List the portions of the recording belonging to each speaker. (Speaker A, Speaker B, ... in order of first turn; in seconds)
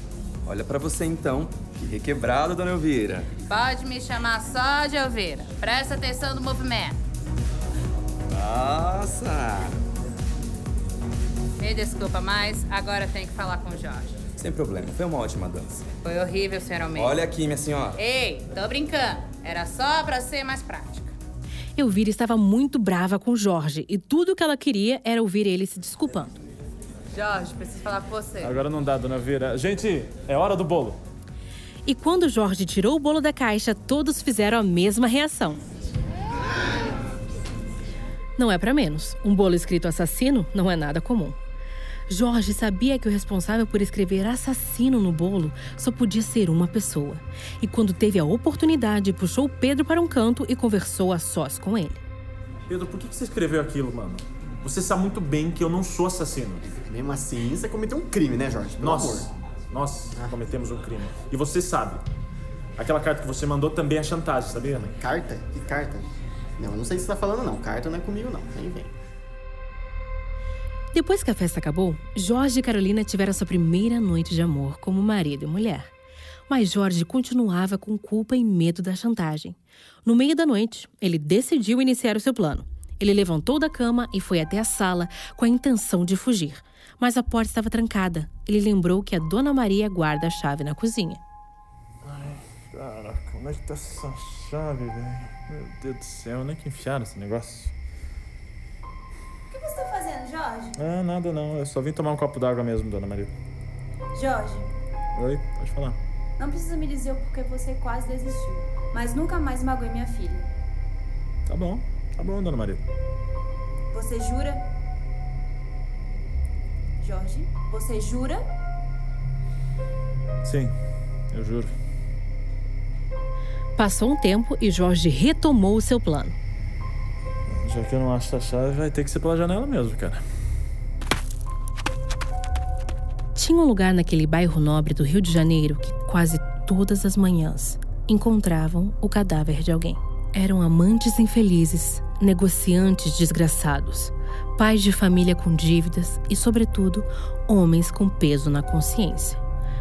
Speaker A: 0.5-3.3, 8.3-9.7, 14.4-15.9, 16.9-18.0
Speaker B: 3.5-7.0, 11.6-14.2, 16.0-17.3, 17.9-21.1, 27.1-28.5
Speaker C: 21.8-26.4, 31.9-35.6, 38.4-41.4, 42.1-52.0, 70.9-75.9, 76.5-91.2, 123.8-126.4, 133.3-149.4
Speaker D: 28.4-31.0, 52.7-56.6, 58.8-62.0, 62.8-65.0, 92.0-97.7, 100.8-103.3, 105.2-106.0, 111.5-112.8, 120.4-120.7, 121.3-121.7, 127.5-130.2
Speaker E: 56.7-59.3, 65.0-66.1, 66.6-68.9
Speaker F: 99.5-100.8, 104.1-104.7, 106.4-110.5, 113.9-114.7, 117.0-118.5